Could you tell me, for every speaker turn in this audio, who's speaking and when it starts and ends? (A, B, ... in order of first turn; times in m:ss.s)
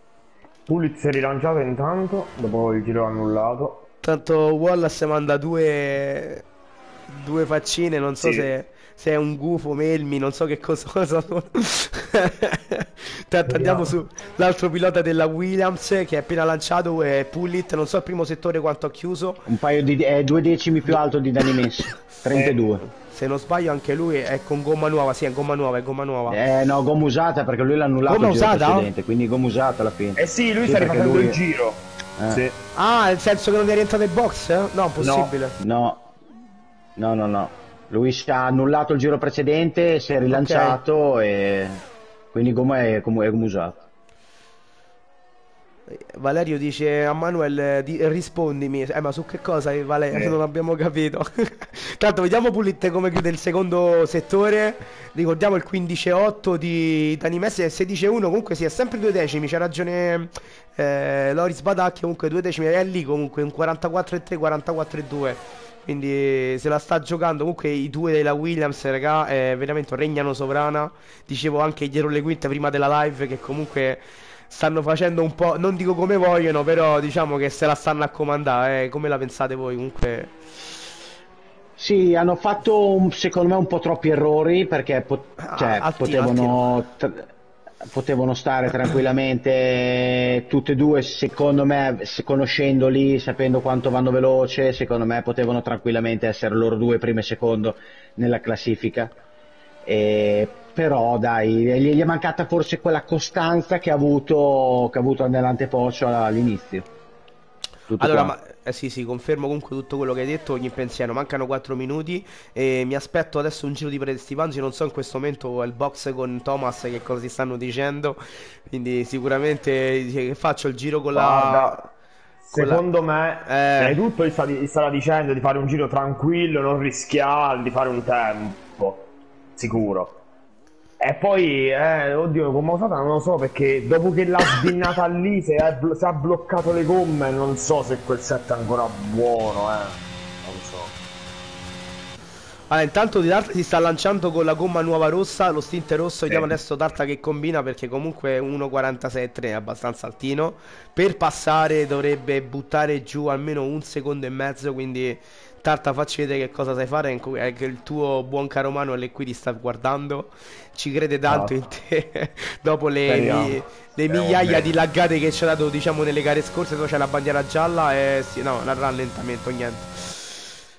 0:00.7-0:03.8 A
0:04.0-0:06.4 B
0:07.1-0:19.4 B
0:08.2-0:08.5 A
0:13.5-0:14.0 A
0:19.4-0:22.8 C
0:22.3-0:22.6 A
0:23.1-0:26.4 B
0:26.3-0:31.4 C
0:28.1-0:28.9 B
0:30.2-0:32.6 A
0:32.2-0:32.4 C
0:32.7-0:35.5 B
0:35.0-0:35.3 A
0:35.6-0:36.1 C
0:37.0-0:43.8 C
0:40.3-0:40.8 B
0:45.9-1:20.4 B
1:21.8-1:27.3 C
1:25.4-1:26.6 B
1:27.8-1:39.1 C
1:39.8-1:46.8 C
1:47.9-1:48.3 C
1:48.0-2:01.9 B
2:01.1-2:01.8 A
2:02.4-2:10.2 A
2:02.5-2:02.8 B
2:03.4-2:04.0 B
2:11.0-2:21.0 A
2:22.7-2:50.4 B
2:41.3-2:41.6 A
2:43.1-2:44.7 A